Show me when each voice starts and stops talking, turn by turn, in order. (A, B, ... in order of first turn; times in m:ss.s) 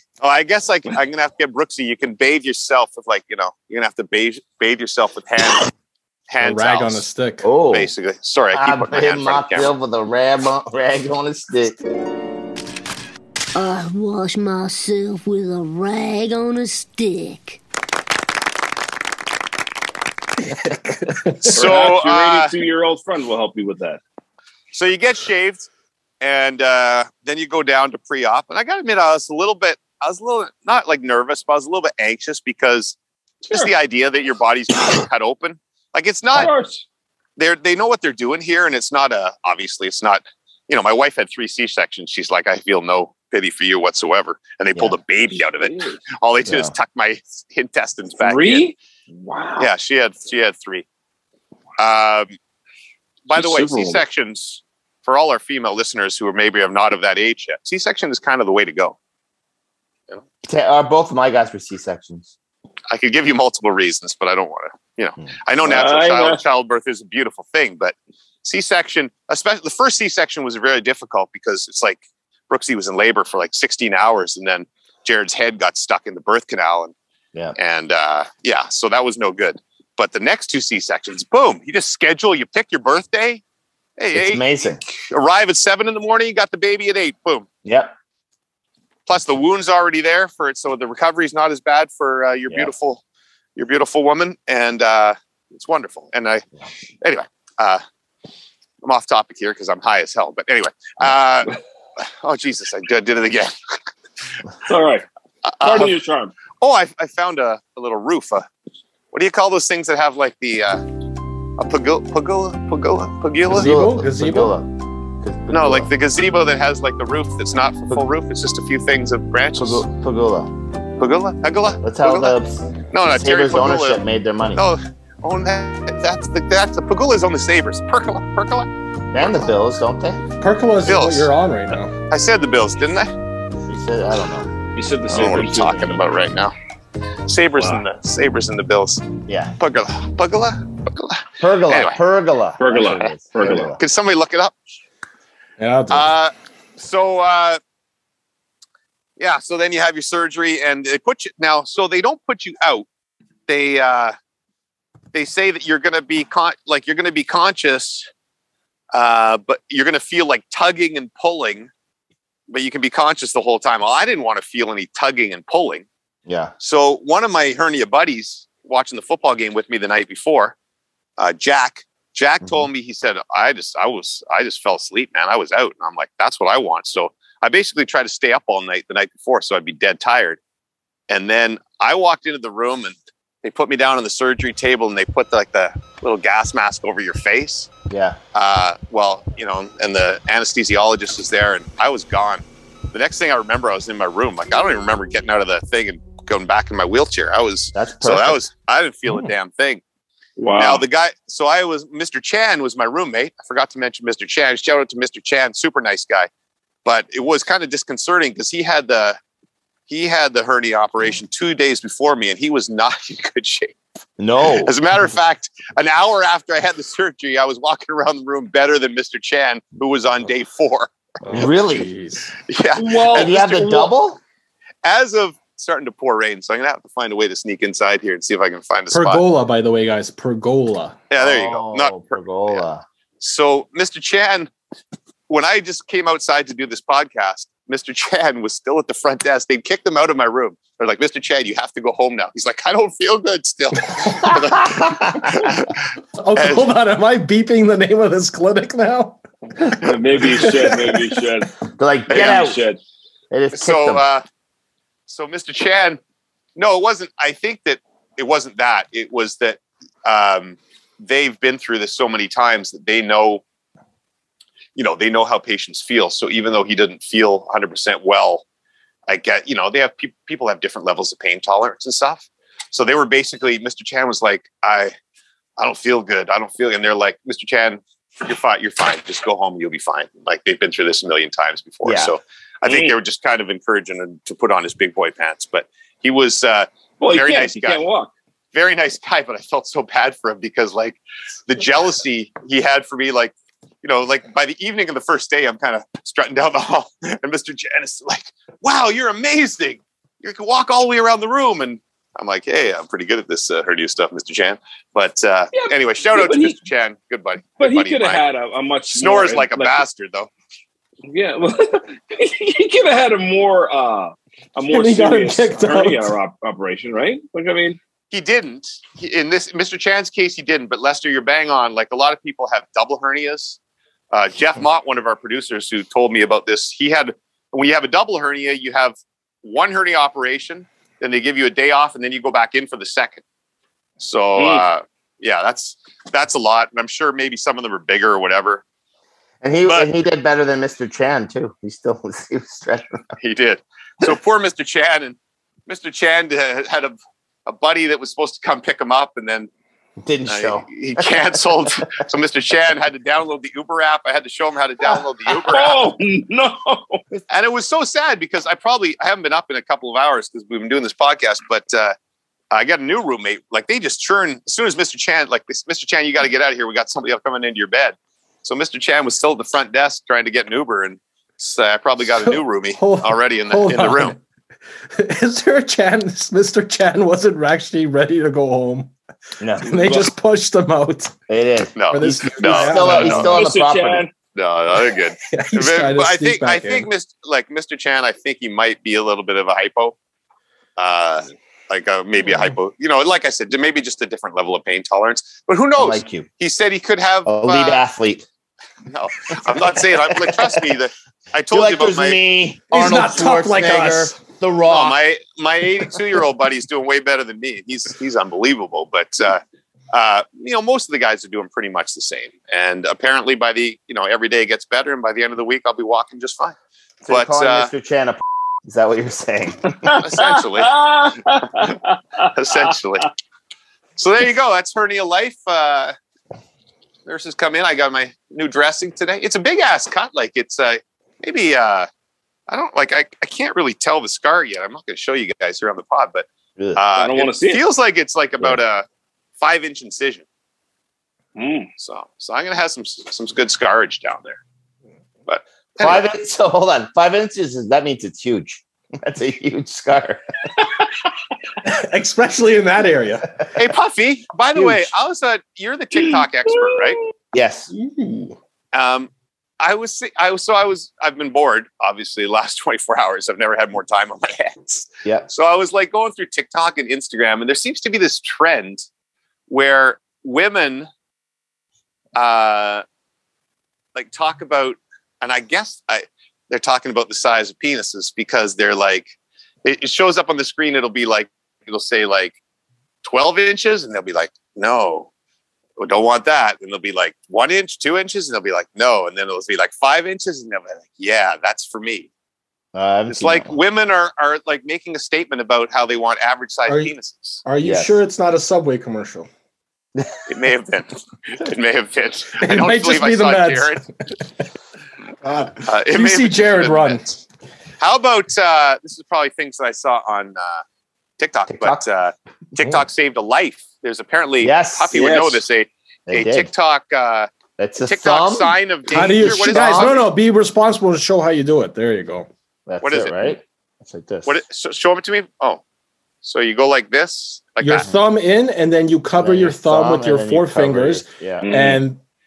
0:00.2-0:05.7 A
0:06.3-0:07.0 A
0:06.4-0:07.5 B
0:07.4-0:07.9 C
0:07.7-0:09.7 A
0:08.5-0:11.8 C
0:13.6-0:17.6 D
0:20.5-0:21.6 B
0:21.4-0:22.5 A
0:21.5-0:24.0 E
0:24.7-0:25.7 A
0:26.2-0:36.5 A
0:36.3-0:36.8 E
0:37.4-0:48.7 A
0:45.6-0:46.0 E
0:46.4-0:46.8 C
0:48.2-0:49.7 E
0:49.6-0:50.8 A
0:51.8-0:52.3 A
0:53.3-0:59.0 A
0:53.3-0:54.0 E
1:00.4-1:02.3 C
1:02.9-1:16.9 A
1:05.6-1:06.4 E
1:17.6-1:23.4 A
1:24.0-1:27.5 A
1:24.1-1:24.8 C
1:27.6-1:27.9 C
1:29.1-1:33.0 A
1:33.6-1:36.4 A
1:37.0-1:37.8 A
1:38.8-1:43.5 A
1:44.6-1:45.0 E
1:45.5-1:46.0 A
1:45.6-1:46.3 E
1:46.6-1:48.5 A
1:49.1-1:50.8 A
1:51.6-1:53.7 A
1:53.5-1:54.6 B
1:53.5-1:54.7 C
1:55.2-1:55.9 C
1:55.5-1:59.8 A
1:59.6-2:00.5 C
2:01.0-2:02.4 A
2:01.8-2:04.6 C
2:02.9-2:04.0 A
2:04.6-2:09.5 A
2:09.1-2:10.2 C
2:10.4-2:11.9 B
2:10.8-2:11.3 A
2:12.1-2:13.1 A
2:13.7-2:14.5 C
2:14.8-2:16.0 E
2:15.1-2:16.5 A
2:17.3-2:19.1 A
2:17.6-2:17.8 E
2:19.3-2:19.5 C
2:19.6-2:22.0 A
2:21.4-2:23.8 C
2:22.6-2:23.7 E
2:23.4-2:24.6 A
2:25.6-2:26.1 B
2:25.9-2:27.6 A
2:29.2-2:32.9 A
2:33.5-2:34.2 A
2:35.1-2:38.1 A
2:38.9-2:41.7 A
2:42.5-2:45.9 A
2:46.3-2:46.5 C
2:46.6-2:50.6 A
2:51.2-3:00.4 A
2:52.4-2:52.7 C
3:01.1-3:07.7 A
3:07.9-3:08.2 C
3:08.3-3:19.8 A
3:17.7-3:18.4 C
3:20.4-3:20.8 E
3:20.6-3:26.3 A
3:26.8-3:29.2 A
3:29.9-3:33.8 A
3:34.2-3:34.8 C
3:34.6-3:40.9 A
3:41.2-3:42.3 B
3:41.3-3:41.9 C
3:42.5-3:43.5 A
3:42.8-3:43.9 E
3:43.1-3:44.2 C
3:44.8-3:49.2 A
3:48.9-3:51.0 B
3:51.1-3:52.6 A
3:51.2-3:52.8 C
3:53.2-3:54.5 A
3:55.3-4:05.8 A
4:04.2-4:05.3 C
4:06.2-4:11.0 B
4:06.4-4:06.7 A
4:09.7-4:11.5 E
4:11.8-4:12.6 C
4:12.1-4:12.8 E
4:12.1-4:12.4 A
4:13.3-4:14.0 C
4:13.5-4:14.2 A
4:15.1-4:16.0 A
4:16.6-4:23.4 A
4:24.8-4:28.4 A
4:29.1-4:34.9 A
4:35.6-4:47.8 A
4:41.8-4:42.2 C
4:42.6-4:43.0 E
4:47.0-4:48.1 E
4:48.5-5:08.2 A
5:05.5-5:06.6 E
5:07.6-5:09.8 E
5:08.9-5:10.3 A
5:11.1-5:17.8 E
5:14.7-5:16.1 B
5:18.1-5:23.6 A
5:24.1-5:33.2 A
5:34.0-5:38.6 A
5:34.4-5:34.6 E
5:39.4-5:43.0 C
5:43.2-5:49.5 A
5:50.0-5:52.0 C
5:50.3-5:55.8 A
5:55.4-5:57.0 E
5:57.3-6:02.0 A
6:02.5-6:14.2 A
6:12.2-6:14.2 B
6:15.0-6:18.9 B
6:19.4-6:19.9 C
6:19.6-6:21.1 B
6:19.7-6:20.1 E
6:21.3-6:24.1 C
6:21.8-6:23.4 A
6:21.9-6:23.4 B
6:23.1-6:24.1 E
6:24.3-6:30.0 A
6:25.3-6:26.9 B
6:30.8-6:37.8 A
6:35.8-6:36.3 C
6:37.3-6:38.3 C
6:38.9-6:42.2 A
6:39.5-6:40.8 C
6:41.5-6:45.0 C
6:42.7-6:44.2 B
6:44.7-6:56.6 A
6:57.0-7:00.0 C
6:57.1-6:57.7 A
6:59.8-7:02.0 E
7:00.0-7:00.8 A
7:02.2-7:03.1 A
7:04.0-7:06.0 A
7:07.1-7:11.9 A
7:12.5-7:18.8 A
7:17.0-7:17.6 E
7:19.4-7:20.2 A
7:21.4-7:21.7 E
7:21.8-7:24.4 A
7:25.3-7:26.1 A
7:25.8-7:30.2 C
7:31.6-7:33.3 B
7:33.6-7:37.0 A
7:37.3-7:37.7 C
7:37.8-7:38.4 B
7:38.7-7:48.9 A
7:49.5-7:50.9 A
7:52.2-7:52.8 A
7:54.0-7:59.1 A
7:59.6-8:02.4 A
8:03.0-8:05.1 A
8:05.8-8:12.1 A
8:12.7-8:13.6 C
8:13.1-8:17.4 A
8:16.7-8:16.9 B
8:17.4-8:19.3 B
8:17.6-8:18.0 C
8:20.3-8:23.8 A
8:22.4-8:23.9 B
8:25.2-8:27.2 B
8:25.6-8:27.1 A
8:27.8-8:30.6 A
8:31.2-8:37.3 A
8:31.5-8:31.8 C
8:34.4-8:35.2 C
8:34.9-8:35.4 E
8:36.1-8:36.5 C
8:37.6-8:40.0 C
8:37.8-8:40.0 A
8:38.9-8:42.3 B
8:42.7-8:44.4 C
8:42.8-8:43.4 A
8:44.3-8:45.6 A
8:46.2-8:47.9 A
8:47.6-8:52.0 B
8:49.2-8:51.5 C
8:51.4-8:51.8 E